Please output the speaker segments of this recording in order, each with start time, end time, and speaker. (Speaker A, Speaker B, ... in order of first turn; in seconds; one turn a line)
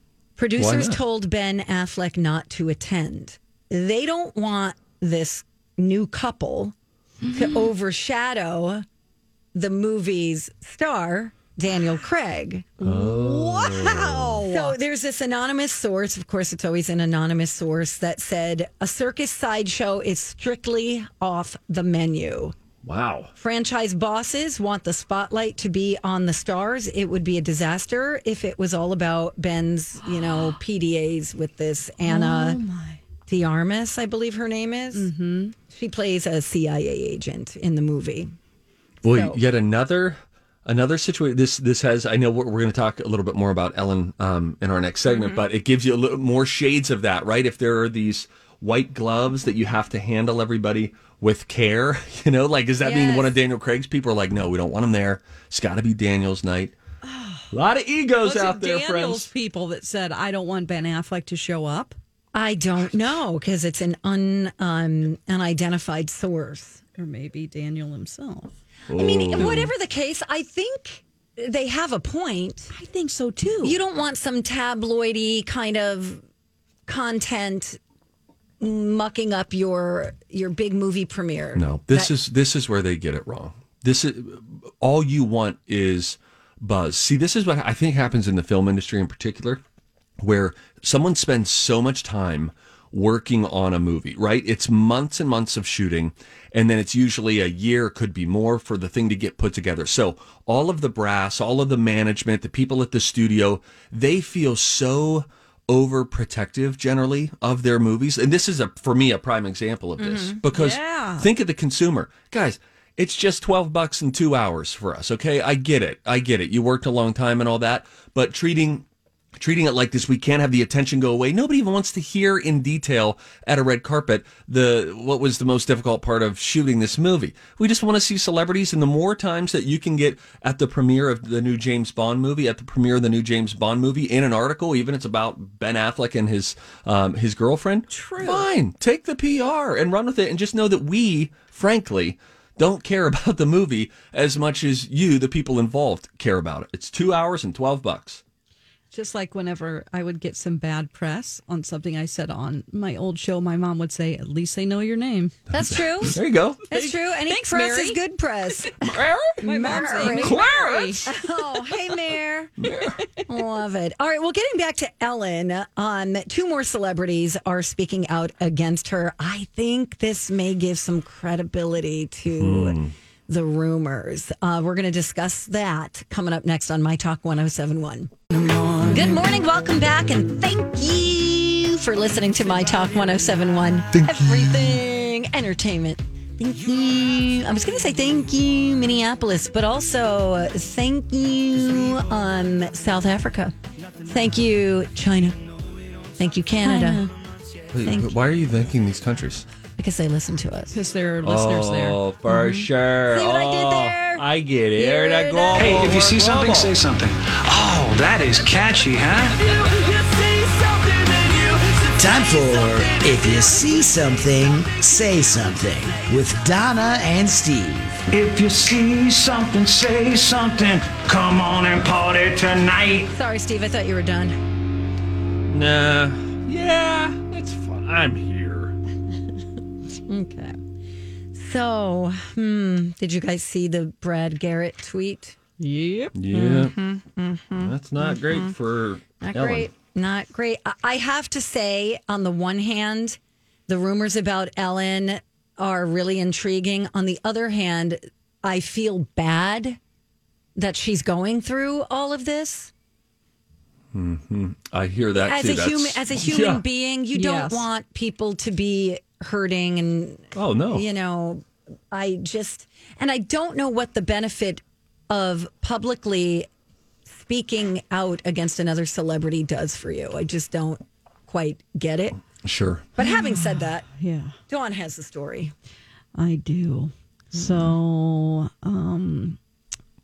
Speaker A: 0.4-6.7
Speaker B: 0.6-1.0
Speaker C: 7.2-7.7
Speaker A: 7.3-8.8
Speaker A: 9.5-12.9
Speaker B: 12.8-14.5
Speaker C: 12.8-14.8
Speaker A: 14.4-22.6
Speaker B: 22.8-23.3
Speaker A: 23.4-32.6
Speaker C: 32.0-33.0
Speaker A: 33.3-35.1
Speaker C: 34.9-35.5
Speaker A: 35.7-38.3
Speaker A: 39.0-39.4
Speaker B: 39.0-56.7
Speaker A: 52.8-53.3
Speaker C: 57.0-57.4
Speaker B: 57.5-59.3
Speaker C: 58.2-62.0
Speaker A: 62.3-66.8
Speaker C: 67.0-68.5
Speaker B: 68.9-69.7
Speaker A: 68.9-72.7
Speaker C: 72.7-73.8
Speaker A: 73.6-76.2
Speaker A: 76.9-77.8
Speaker A: 78.6-82.1
Speaker B: 81.5-89.6
Speaker B: 90.2-118.8
Speaker A: 110.0-110.4
Speaker C: 110.5-111.3
Speaker B: 119.4-148.2
Speaker C: 137.9-138.5
Speaker C: 148.9-155.3
Speaker A: 155.5-156.2
Speaker B: 156.0-156.7
Speaker A: 156.7-158.8
Speaker C: 156.7-158.0
Speaker B: 158.8-161.1
Speaker A: 159.4-160.4
Speaker C: 159.4-161.1
Speaker A: 161.1-162.5
Speaker B: 162.6-163.0
Speaker A: 163.3-172.8
Speaker B: 172.4-172.9
Speaker A: 173.3-193.5
Speaker A: 194.0-195.4
Speaker A: 196.2-197.0
Speaker C: 196.6-197.1
Speaker B: 197.7-199.4
Speaker A: 197.8-198.1
Speaker A: 199.8-200.7
Speaker C: 200.7-202.0
Speaker B: 201.2-206.7
Speaker A: 202.3-204.2
Speaker A: 204.8-205.8
Speaker D: 205.6-213.6
Speaker E: 211.9-218.0
Speaker D: 218.1-223.1
Speaker A: 223.1-224.3
Speaker B: 225.5-228.7
Speaker A: 230.1-230.6
Speaker A: 231.3-235.4
Speaker C: 235.6-236.7
Speaker B: 236.1-236.7
Speaker A: 236.4-238.5
Speaker B: 237.6-239.7
Speaker A: 239.2-249.8
Speaker A: 250.6-252.7
Speaker B: 253.9-256.6
Speaker A: 255.2-266.5
Speaker C: 257.1-257.7
Speaker B: 260.3-260.9
Speaker A: 267.1-272.2
Speaker B: 272.4-272.9
Speaker A: 273.0-273.9
Speaker C: 273.0-274.4
Speaker A: 274.5-275.5
Speaker C: 276.1-279.4
Speaker A: 277.3-277.7